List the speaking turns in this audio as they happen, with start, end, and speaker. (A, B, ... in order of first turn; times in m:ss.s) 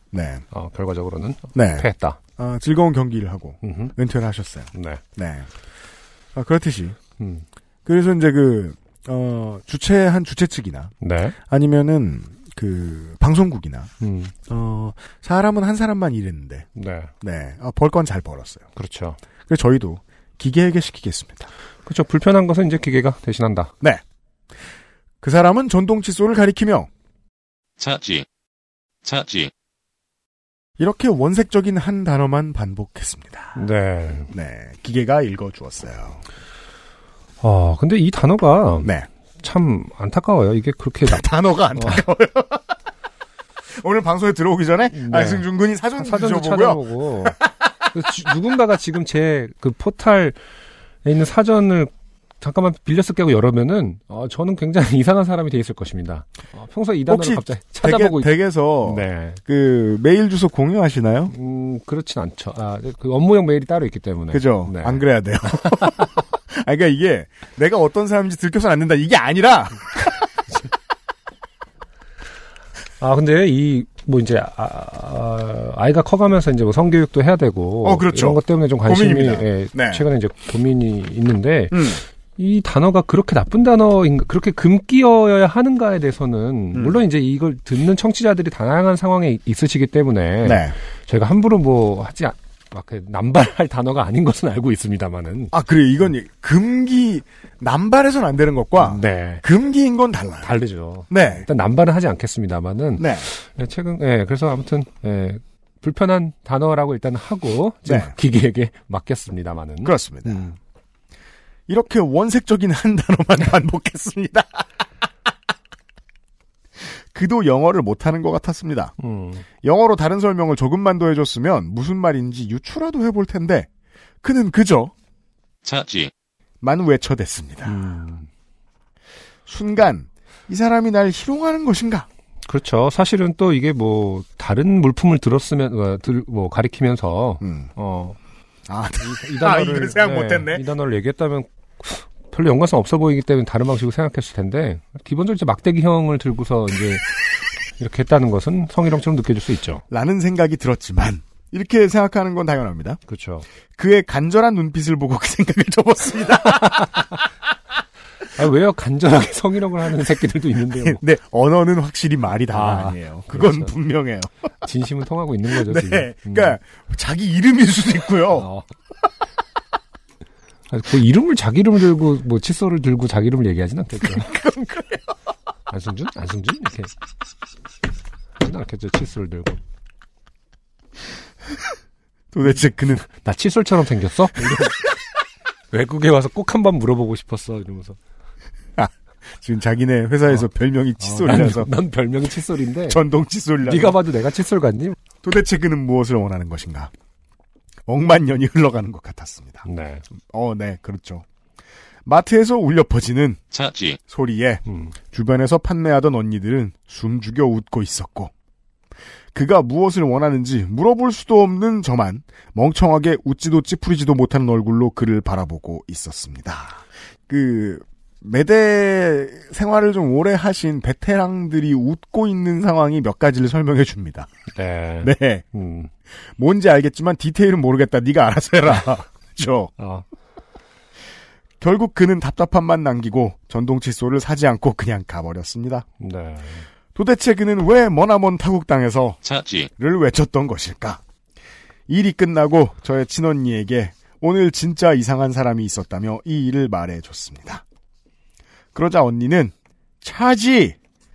0:00.1-0:00.4 A
0:00.5-0:02.2 B
0:01.6-0:05.5 A
0:03.6-0:04.0 B
0:04.7-0:05.0 B
0:06.4-0:07.0 A
0:07.2-0:07.4 B
0:07.9-0:13.9 A
0:11.0-0:11.4 B
0:14.0-0:14.3 B
0:14.5-0:16.7 A
0:16.8-0:17.1 B
0:17.2-0:18.7 A
0:18.8-0:19.2 B
0:19.5-0:21.5 A
0:21.9-0:23.7 B
0:25.2-0:26.9 A
0:27.8-0:28.3 C
0:29.0-0:29.5 C
0:30.8-0:33.6 A
0:33.6-0:34.3 B
0:34.3-0:36.2 A
0:37.4-0:42.0 B
0:41.0-0:42.6 A
0:43.7-0:47.3 A
0:44.9-0:47.4 B
0:47.9-0:50.4 B
0:51.0-0:59.4 B
0:57.1-1:01.3 A
1:01.3-1:06.1 B
1:04.3-1:10.3 A
1:13.0-1:35.5 B
1:17.8-1:20.0 A
1:21.7-1:22.0 A
1:26.7-1:27.0 A
1:30.4-1:30.8 A
1:35.5-1:40.5 A
1:38.8-1:39.4 B
1:40.4-1:50.5 B
1:41.1-1:41.5 A
1:43.0-1:43.3 A
1:47.9-1:48.1 A
1:49.8-1:50.5 A
1:51.7-1:54.7 A
1:57.1-1:58.9 A
1:59.0-1:59.4 B
1:59.6-2:03.7 A
2:04.2-2:04.9 A
2:05.6-2:06.1 C
2:06.6-2:07.8 A
2:07.6-2:08.3 B
2:09.5-2:12.1 A
2:12.5-2:18.2 B
2:17.4-2:17.7 A
2:18.7-2:20.6 A
2:19.0-2:27.2 B
2:27.8-2:29.8 B
2:29.9-2:33.0 A
2:33.1-2:33.5 B
2:33.8-2:37.1 A
2:36.5-2:37.2 B
2:38.3-2:41.0 B
2:40.8-2:44.3 A
2:42.5-2:43.7 B
2:44.6-2:46.6 B
2:45.5-2:48.5 A
2:48.4-2:48.7 B
2:50.7-2:54.4 B
2:54.0-2:55.0 A
2:55.7-2:56.9 B
2:58.4-2:59.6 B
3:02.3-3:03.1 A
3:03.1-3:04.8 B
3:05.7-3:08.0 B
3:08.8-3:11.7 A
3:11.0-3:13.0 B
3:12.9-3:14.0 A
3:13.6-3:15.0 B
3:15.2-3:16.9 A
3:17.9-3:19.6 A
3:19.6-3:20.0 B
3:20.3-3:21.2 A
3:22.1-3:23.4 A
3:23.5-3:24.0 C
3:24.1-3:28.3 A
3:24.7-3:24.9 B
3:29.3-3:44.3 A
3:44.5-3:45.9 B
3:45.0-3:45.5 A
3:46.4-3:49.7 A
3:49.8-3:50.0 B
3:51.6-3:55.9 A
3:56.0-3:56.7 B
3:57.0-3:59.2 A
3:59.2-3:59.7 C
3:59.8-4:01.0 A
4:01.9-4:07.6 A
4:08.8-4:10.8 A